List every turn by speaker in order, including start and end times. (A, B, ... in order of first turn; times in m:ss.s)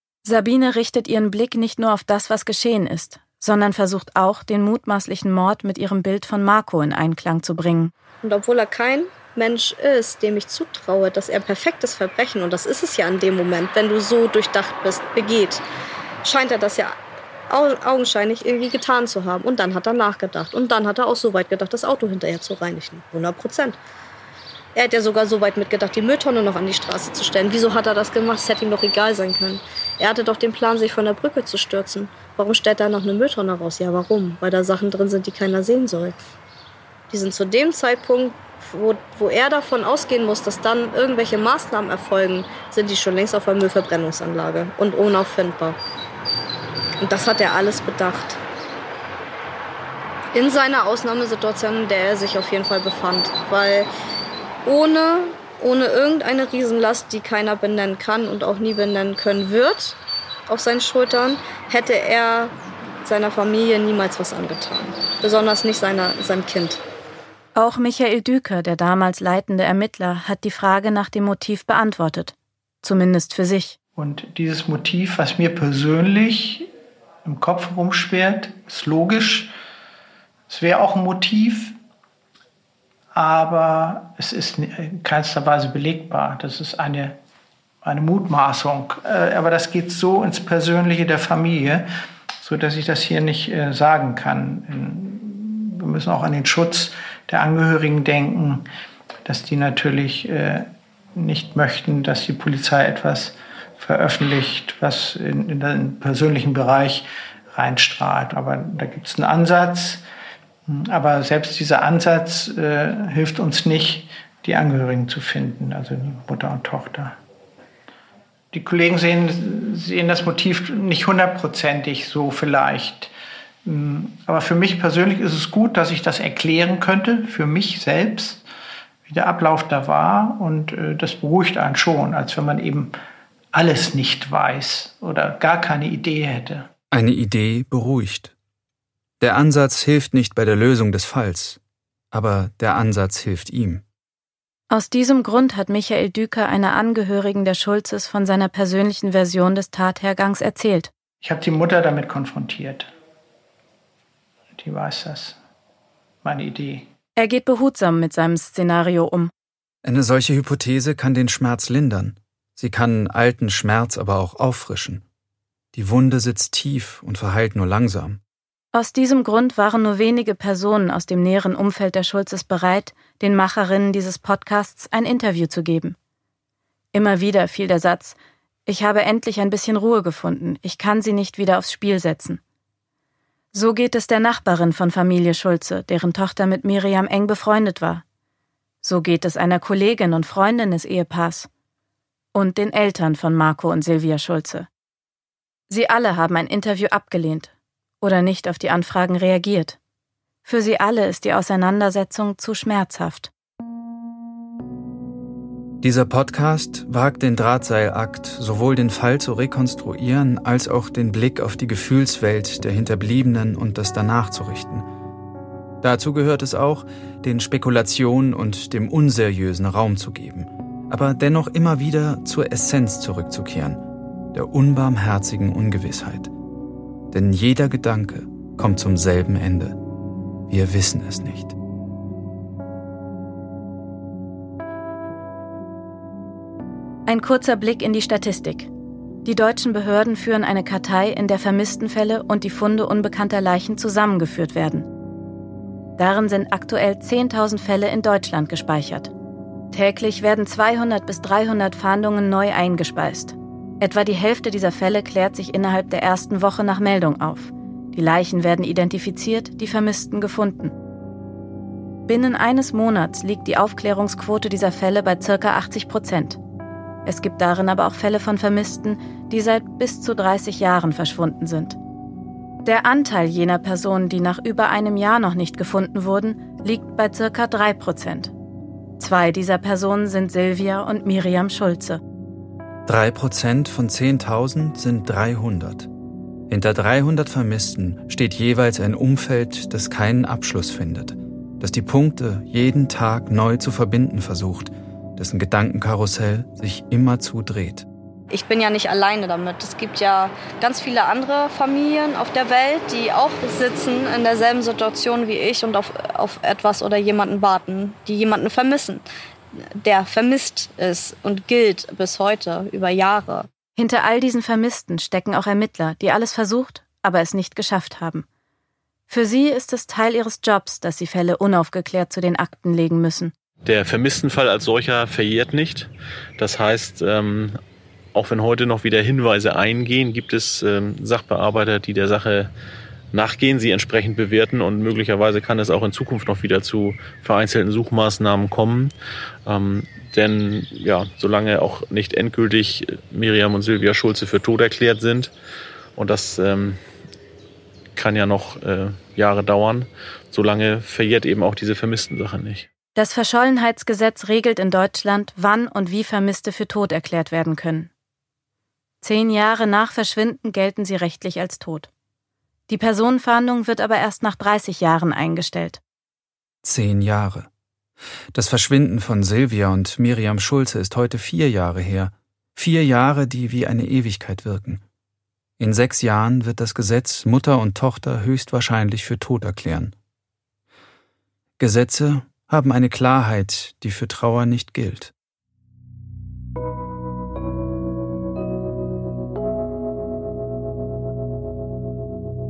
0:00.2-0:07.9 A
0:08.2-0:15.6 B
0:16.2-0:17.0 B
0:17.5-0:23.8 B
0:24.7-0:36.2 B
0:37.1-0:45.8 B
0:47.0-0:48.4 B
0:50.3-0:53.9 B
0:54.6-1:06.8 B
1:07.5-1:13.8 A
1:14.0-1:16.7 C
1:17.2-1:19.5 C
1:20.5-1:21.7 C
1:23.1-1:27.2 C
1:27.8-1:31.8 C
1:32.4-1:38.6 C
1:39.2-1:50.0 C
1:50.7-1:57.2 C
1:58.5-2:03.1 C
2:03.6-2:08.4 C
2:09.0-2:12.9 C
2:13.5-2:16.7 C
2:16.9-2:18.3 D
2:19.2-2:21.6 D
2:22.1-2:23.8 D
2:24.7-2:30.9 A
2:31.2-2:32.9 C
2:34.5-2:35.4 C
2:36.2-2:36.9 C
2:37.2-2:39.3 A
2:39.8-2:45.0 D
2:45.7-2:48.2 D
2:48.7-2:56.0 A
2:56.9-3:02.4 A
3:03.5-3:08.0 A
3:08.8-3:11.5 A
3:12.3-3:14.7 A
3:15.7-3:19.8 A
3:20.4-3:23.3 A
3:25.8-3:34.9 D
3:35.8-3:43.8 D
3:44.3-3:46.3 D
3:47.1-3:49.8 D
3:50.5-3:51.5 D
3:57.1-3:58.7 A
3:59.2-4:04.9 A
4:06.0-4:09.1 A
4:09.7-4:20.7 A
4:22.1-4:26.4 A
4:27.0-4:31.8 A
4:32.6-4:38.3 A
4:39.0-4:42.0 A
4:42.8-4:45.9 D
4:46.5-4:57.8 D
4:58.3-5:09.0 B
5:09.8-5:13.5 B
5:13.8-5:18.2 A
5:19.1-5:23.3 A
5:23.6-5:27.6 E
5:28.1-5:32.5 E
5:33.1-5:38.9 E
5:39.4-5:45.3 E
5:46.0-5:46.8 E
5:47.9-5:52.7 E
5:53.0-5:57.9 A
5:59.0-6:01.9 A
6:02.7-6:05.8 A
6:06.6-6:07.5 D
6:08.3-6:14.8 D
6:15.6-6:19.9 D
6:21.6-6:25.1 D